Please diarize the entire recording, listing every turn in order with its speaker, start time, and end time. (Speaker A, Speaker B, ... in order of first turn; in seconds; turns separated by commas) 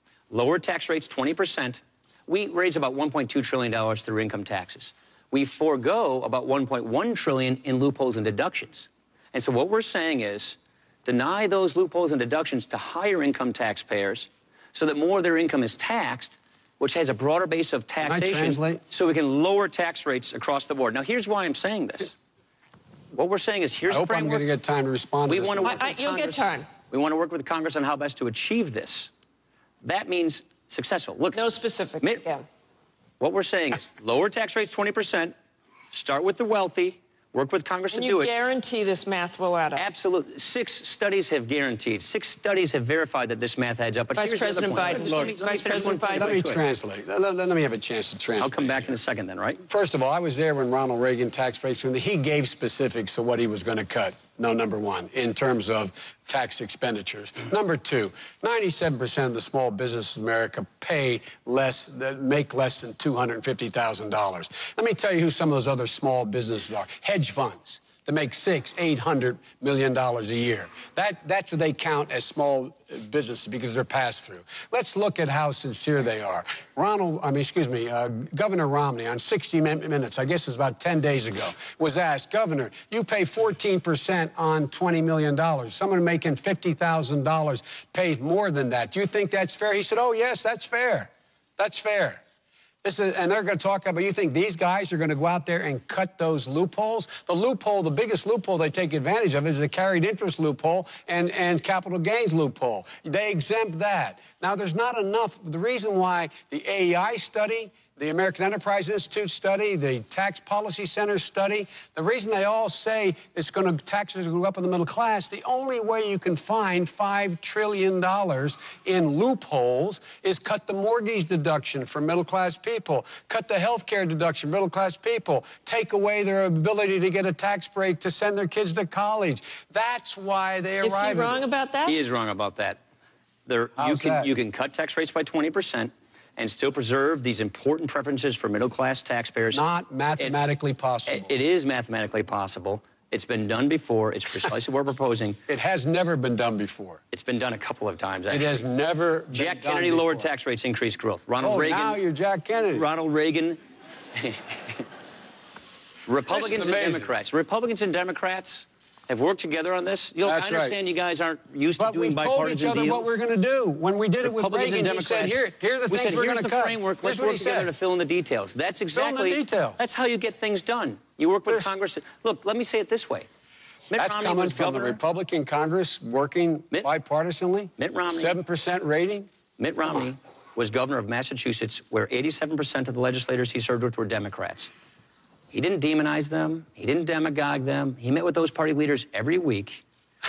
Speaker A: 0.3-22.1, Speaker B: 18.0-18.8, Speaker A: 23.1-24.4, Speaker B: 23.9-25.9, Speaker A: 25.3-29.1, Speaker C: 25.6-26.7, Speaker A: 29.8-31.4, Speaker C: 31.3-32.5, Speaker A: 33.2-35.3, Speaker A: 35.9-38.3, Speaker C: 37.9-39.9, Speaker A: 39.8-46.6, Speaker C: 44.1-46.4, Speaker B: 45.0-45.4, Speaker B: 46.1-49.0, Speaker A: 48.4-49.6, Speaker B: 49.6-92.2, Speaker B: 92.8-131.4, Speaker C: 130.8-132.0, Speaker A: 131.9-132.8, Speaker A: 133.5-139.6, Speaker B: 133.8-134.3, Speaker B: 139.5-141.3, Speaker A: 141.1-145.4, Speaker B: 145.5-147.0, Speaker A: 147.1-148.6, Speaker B: 148.3-150.3, Speaker A: 149.3-152.0, Speaker B: 151.4-152.9, Speaker A: 152.7-153.6, Speaker A: 154.1-154.9, Speaker A: 156.1-163.2, Speaker B: 156.3-157.1, Speaker B: 160.2-160.8, Speaker B: 161.8-167.7, Speaker A: 164.2-173.3, Speaker B: 168.9-169.8, Speaker A: 173.9-175.0, Speaker B: 174.0-179.3, Speaker A: 177.8-178.4, Speaker A: 179.6-184.7, Speaker A: 185.5-189.8